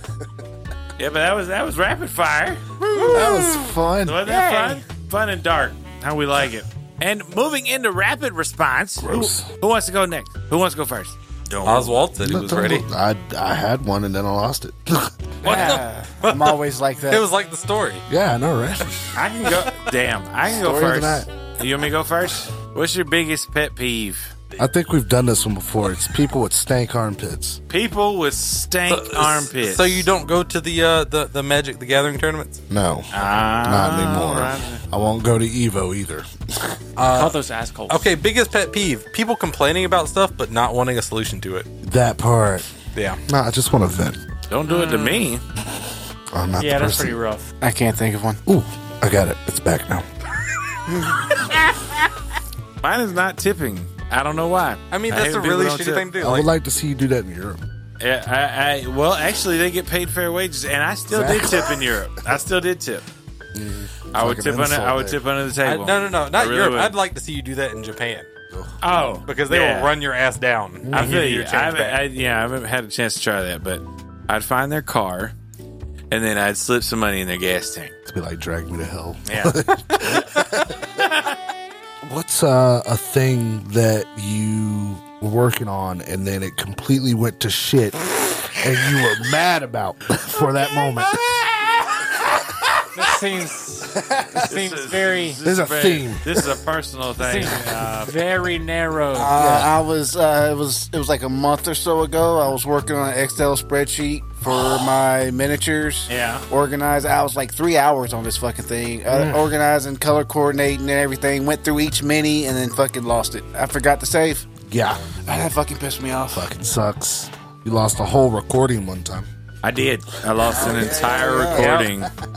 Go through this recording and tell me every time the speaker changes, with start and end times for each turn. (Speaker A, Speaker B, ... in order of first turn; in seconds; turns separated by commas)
Speaker A: 1.0-3.3, Speaker B: 3.0-3.3, Speaker C: 3.1-3.4, Speaker D: 3.1-4.2, Speaker A: 4.0-12.0, Speaker B: 4.2-4.8, Speaker D: 9.0-9.5, Speaker C: 11.7-12.8, Speaker D: 12.2-15.2, Speaker E: 15.4-17.3, Speaker C: 15.4-18.0, Speaker D: 18.1-19.2, Speaker A: 19.1-24.4, Speaker D: 20.6-21.3, Speaker E: 20.6-21.1, Speaker D: 24.6-27.6, Speaker A: 27.7-30.1, Speaker C: 28.9-32.6, Speaker D: 32.7-36.8, Speaker A: 33.1-34.8, Speaker C: 37.0-37.4, Speaker B: 37.0-38.1, Speaker C: 37.9-41.7, Speaker D: 41.8-42.7, Speaker C: 43.0-43.2, Speaker D: 43.3-44.2, Speaker A: 44.5-45.4, Speaker B: 44.7-45.3, Speaker D: 46.3-47.2, Speaker B: 46.6-47.5, Speaker E: 47.6-48.4, Speaker D: 48.5-50.1, Speaker A: 52.8-56.1, Speaker C: 54.9-56.5, Speaker D: 56.2-57.6, Speaker A: 58.0-63.0, Speaker D: 61.1-61.8, Speaker D: 63.5-65.2, Speaker A: 64.1-67.0, Speaker C: 65.6-68.3, Speaker A: 68.8-69.9, Speaker C: 69.3-72.0, Speaker D: 70.8-71.2, Speaker A: 70.9-75.3, Speaker A: 76.1-77.9, Speaker D: 78.1-80.8, Speaker A: 79.3-79.6, Speaker A: 81.0-81.4, Speaker D: 82.0-91.2, Speaker B: 93.0-95.4, Speaker D: 94.0-94.4, Speaker A: 94.3-98.1, Speaker D: 95.4-96.4, Speaker B: 97.2-99.3, Speaker E: 99.1-114.5, Speaker D: 99.3-99.8, Speaker A: 106.1-106.4, Speaker D: 109.1-109.5, Speaker D: 114.7-115.2, Speaker E: 115.2-116.5, Speaker D: 116.3-119.3, Speaker A: 119.6-122.1, Speaker E: 120.5-121.8, Speaker D: 120.8-121.9, Speaker C: 121.5-121.9